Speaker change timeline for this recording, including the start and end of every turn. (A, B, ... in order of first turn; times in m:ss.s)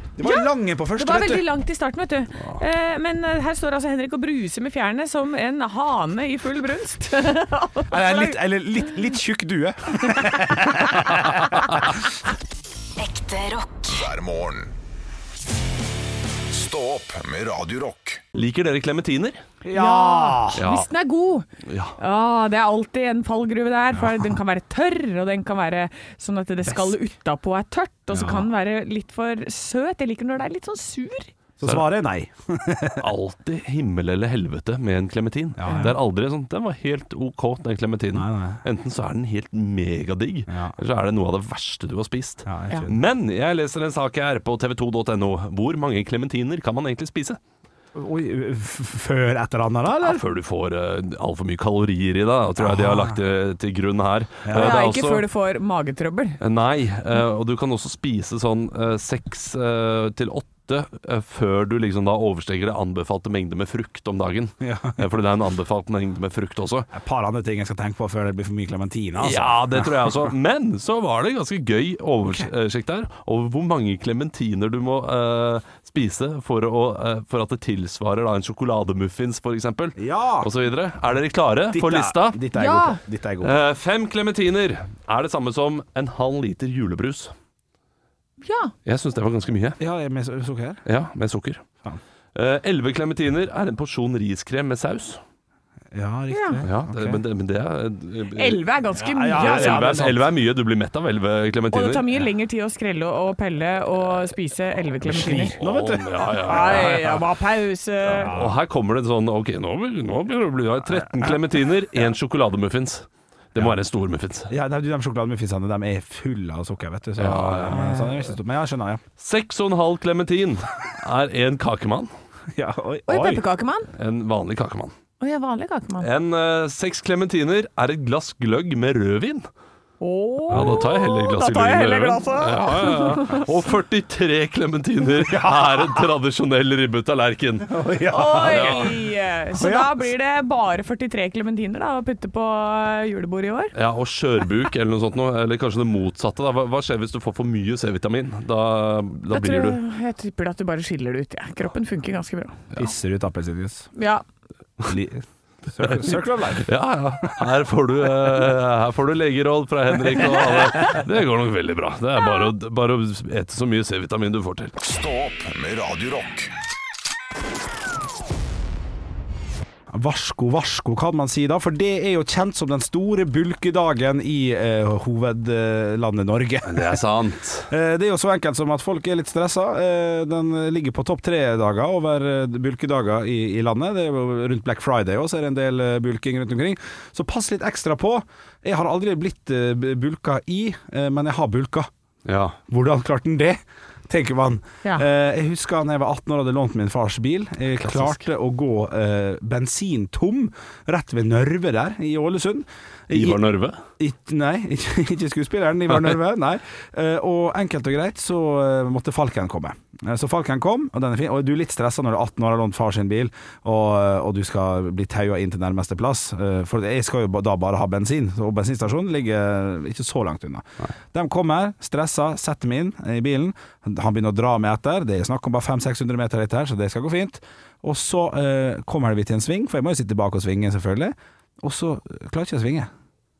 0:00.2-0:01.4 A
0:00.2-0:08.4 B
0:07.9-0:11.9 A
0:13.0-0:14.8 C
0:16.5-0:18.2 C
0:18.3-0:19.4 D
0:19.6-0:20.6 A
0:19.7-0:31.3 B
0:20.6-0:20.9 D
0:21.6-0:22.0 D
0:28.1-0:28.5 A
0:31.6-0:33.1 A
0:33.0-0:47.4 D
0:35.6-0:36.0 A
0:38.1-0:38.6 A
0:40.5-0:40.7 A
0:42.4-0:43.0 A
0:47.9-0:50.2 A
0:50.0-0:55.2 D
0:52.6-0:53.2 A
0:54.4-0:54.8 A
0:54.5-0:56.4 B
0:56.4-1:06.9 D
1:04.6-1:05.0 A
1:06.9-1:10.3 A
1:09.2-1:22.4 D
1:12.2-1:12.5 A
1:20.0-1:20.5 A
1:21.7-1:23.6 A
1:22.5-1:23.0 B
1:23.4-1:27.3 D
1:28.4-1:28.7 B
1:28.8-1:29.8 D
1:29.8-1:30.8 A
1:30.8-1:31.6 D
1:32.3-1:35.2 D
1:35.9-1:37.2 A
1:36.3-1:36.6 B
1:36.6-1:38.6 D
1:38.3-1:40.1 B
1:39.0-1:40.2 A
1:39.3-1:42.0 D
1:41.7-1:45.6 B
1:45.0-1:47.1 A
1:45.6-1:47.2 D
1:46.4-1:48.3 B
1:48.1-1:54.5 D
1:48.2-1:48.6 A
1:54.5-1:59.0 A
1:57.2-1:58.0 D
1:59.2-2:02.1 D
2:02.5-2:03.4 A
2:03.1-2:03.9 B
2:04.0-2:04.9 D
2:05.2-2:06.1 B
2:06.0-2:09.5 D
2:10.0-2:13.5 B
2:10.5-2:10.8 A
2:10.5-2:17.7 D
2:15.1-2:16.0 A
2:17.7-2:19.0 A
2:18.1-2:23.7 B
2:18.4-2:19.0 D
2:19.5-2:20.0 A
2:23.7-2:29.8 D
2:29.3-2:32.6 B
2:32.7-2:33.9 A
2:33.9-2:34.2 B
2:34.8-2:36.6 A
2:35.8-2:44.7 D
2:44.8-2:46.5 C
2:49.9-2:57.0 A
2:56.6-2:57.7 D
2:57.7-3:11.9 A
3:12.2-3:12.6 D
3:12.7-3:23.4 A
3:17.8-3:18.2 D
3:23.1-3:23.8 D
3:24.0-3:52.9 A